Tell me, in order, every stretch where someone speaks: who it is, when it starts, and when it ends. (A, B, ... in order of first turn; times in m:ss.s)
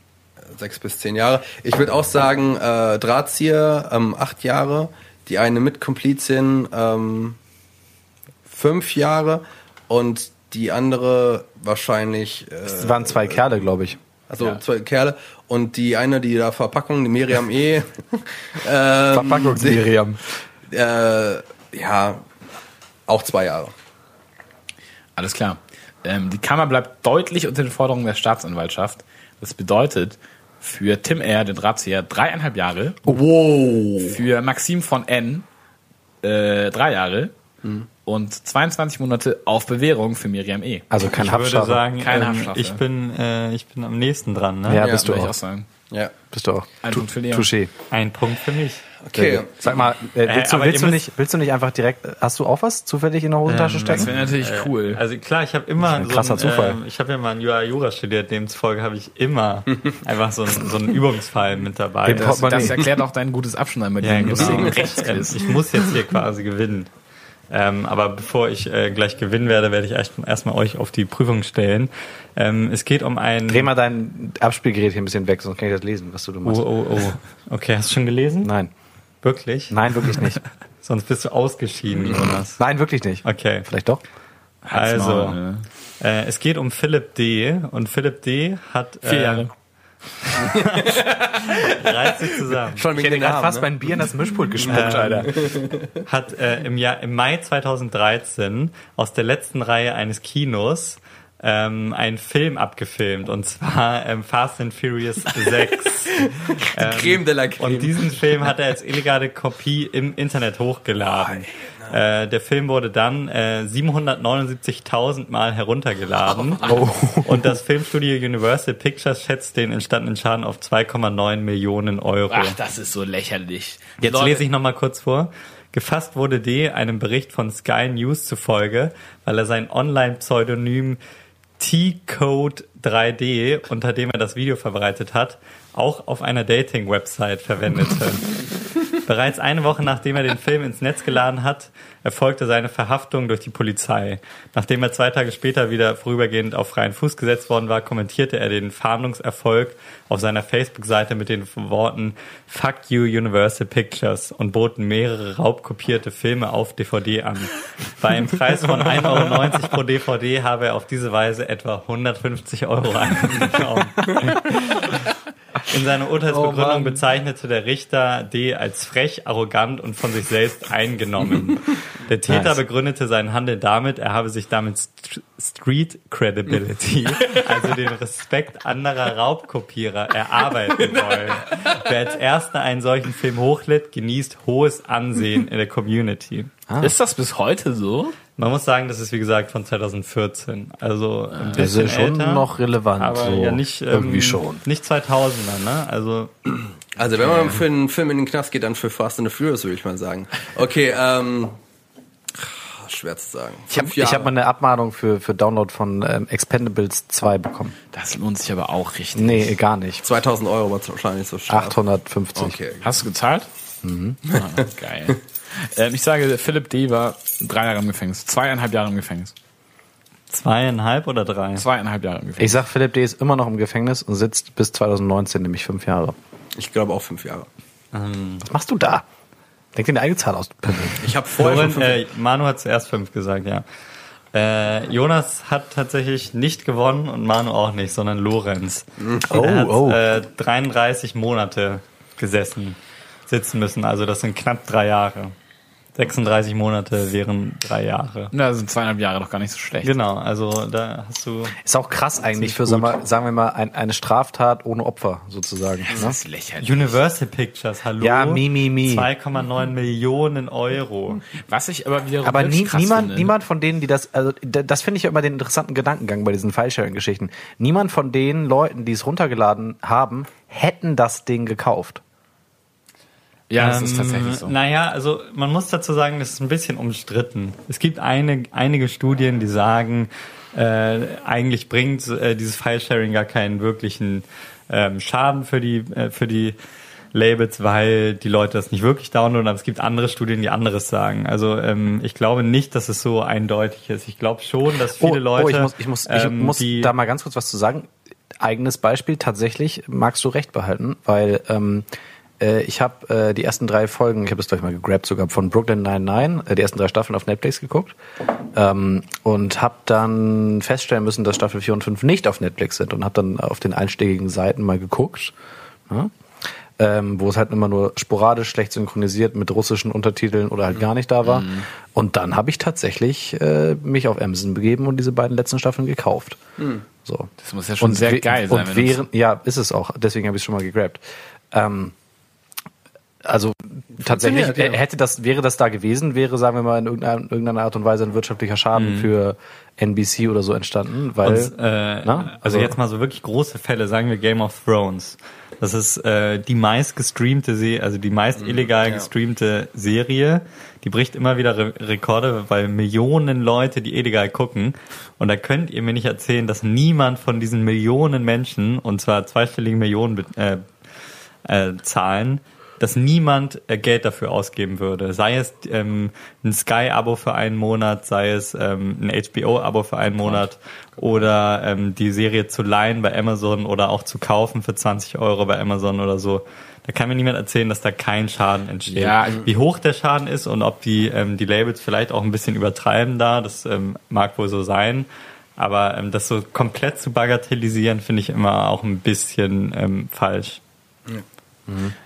0:00.4-0:07.4 A
0:08.5-0:13.5 A
0:12.7-0:14.0 B
0:14.3-0:19.9 A
0:19.1-0:20.2 B
0:20.7-0:22.2 A
0:23.1-0:23.7 A
0:25.2-0:33.2 C
0:33.1-0:34.2 A
0:34.0-0:35.4 C
0:36.2-0:37.3 C
0:38.0-0:40.9 C
0:40.9-0:41.8 B
0:41.2-0:44.8 D
0:42.0-0:42.8 C
0:44.7-0:45.3 B
0:44.8-0:45.1 A
0:44.8-0:45.7 C
0:46.3-0:47.7 B
0:46.8-0:47.5 C
0:47.9-0:48.8 D
0:49.0-0:49.8 A
0:49.1-0:54.1 B
0:50.2-0:51.1 D
0:53.4-1:02.7 D
0:53.8-0:55.0 C
0:55.8-0:56.8 B
1:02.0-1:02.8 B
1:02.1-1:05.5 C
1:04.0-1:06.9 D
1:07.5-1:13.7 D
1:13.5-1:16.7 B
1:16.4-1:18.5 D
1:18.4-1:18.7 B
1:19.2-1:20.2 D
1:19.7-1:20.4 B
1:20.8-1:22.6 D
1:22.6-1:24.0 B
1:23.2-1:23.6 D
1:24.6-1:25.6 C
1:24.7-1:25.4 D
1:26.0-1:29.5 D
1:29.0-1:29.5 C
1:30.4-1:32.0 A
1:30.4-1:32.8 D
1:32.7-1:35.9 A
1:32.9-1:35.5 B
1:34.6-1:35.3 D
1:36.0-2:02.6 D
1:46.1-1:48.2 A
1:51.0-1:52.0 A
1:56.6-1:57.5 B
2:02.3-2:04.4 C
2:04.0-2:11.0 D
2:11.6-2:18.4 D
2:19.0-2:44.5 D
2:45.7-3:06.5 D
2:46.3-2:47.0 A
2:52.3-2:52.6 B
3:06.7-3:06.9 B
3:06.8-3:08.2 C
3:08.4-3:12.5 D
3:11.3-3:11.7 C
3:11.5-3:14.6 B
3:13.0-3:16.3 D
3:17.0-3:21.6 A
3:22.4-3:24.3 A
3:23.7-3:27.8 B
3:27.9-3:29.6 C
3:29.2-3:30.0 B
3:30.0-3:31.8 A
3:31.5-3:32.6 B
3:32.4-3:32.9 A
3:32.8-3:33.5 C
3:33.8-3:34.2 B
3:34.3-3:39.3 C
3:40.3-3:41.6 D
3:41.6-3:42.6 C
3:42.4-3:46.1 B
3:46.5-3:47.5 A
3:47.9-3:48.4 D
3:48.4-3:49.0 B
3:49.7-3:51.1 B
3:51.0-3:52.0 A
3:51.4-3:53.6 D
3:54.3-4:05.3 D
3:59.3-4:00.0 B
4:05.9-4:08.3 D
4:08.3-4:09.9 C
4:09.8-4:11.5 D
4:11.6-4:16.2 B
4:12.3-4:13.0 C
4:15.8-4:17.0 C
4:16.6-4:21.2 D
4:18.0-4:19.1 B
4:21.3-4:23.3 C
4:22.2-4:32.0 B
4:33.5-4:34.5 C
4:33.6-4:46.6 D
4:47.1-4:56.9 D
4:55.0-5:01.8 B
5:02.4-5:07.9 B
5:08.5-5:15.3 B
5:16.8-5:26.4 B
5:21.2-5:21.7 C
5:26.6-5:26.8 A
5:27.0-5:27.3 B
5:27.4-5:29.0 C
5:27.8-5:31.9 B
5:33.2-5:41.5 B
5:34.0-5:34.8 A
5:38.7-5:39.1 D
5:41.2-6:00.6 D
5:42.0-5:42.7 B
5:48.4-5:49.1 A
6:01.4-6:30.6 D
6:10.2-6:10.4 C
6:18.9-6:19.5 C
6:31.7-6:31.9 B